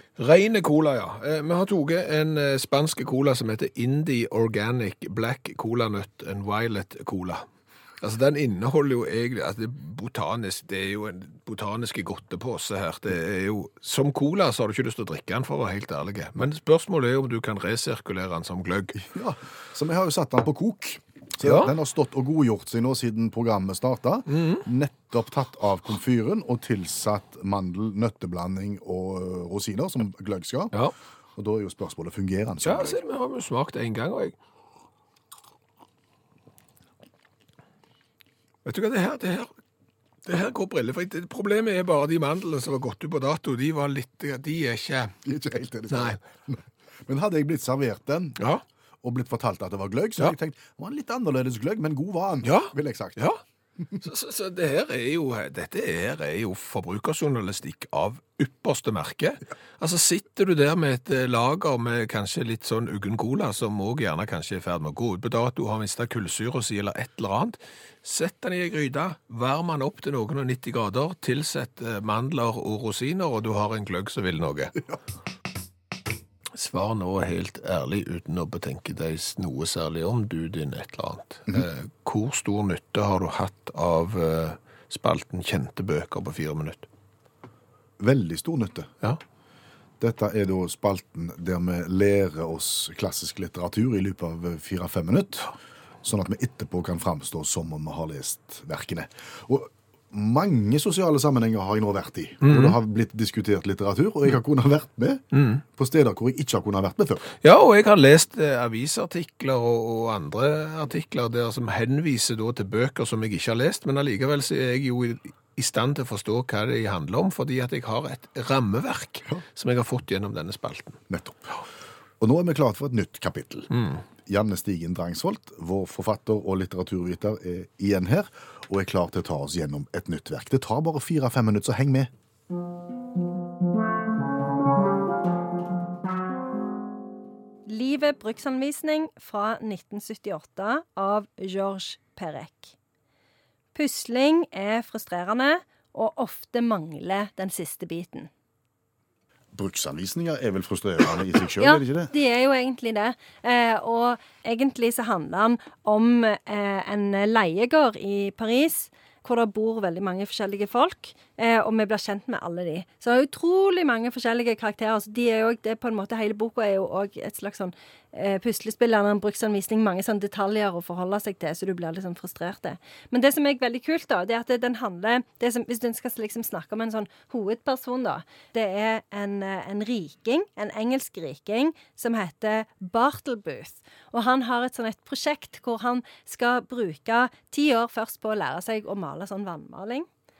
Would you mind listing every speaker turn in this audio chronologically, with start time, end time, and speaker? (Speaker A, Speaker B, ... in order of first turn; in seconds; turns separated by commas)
Speaker A: 0.2-7.4, Speaker A: 8.0-19.0, Speaker B: 18.9-30.7, Speaker A: 21.4-21.7, Speaker A: 24.3-24.6, Speaker B: 31.4-33.0, Speaker A: 32.6-34.3, Speaker A: 38.6-39.5, Speaker A: 40.2-45.1, Speaker B: 45.2-48.4, Speaker A: 45.9-46.2, Speaker B: 49.0-53.2, Speaker A: 52.4-53.4, Speaker A: 54.0-74.8, Speaker A: 76.5-86.9, Speaker B: 88.0-88.9, Speaker B: 90.0-95.5, Speaker B: 96.0-105.2, Speaker A: 102.4-102.8, Speaker A: 105.3-105.6, Speaker B: 105.8-107.3, Speaker A: 107.4-121.0, Speaker B: 121.1-121.6, Speaker B: 122.2-123.7, Speaker B: 124.2-132.1, Speaker C: 137.7-142.8, Speaker C: 143.7-148.3, Speaker B: 149.5-152.1, Speaker C: 151.6-190.1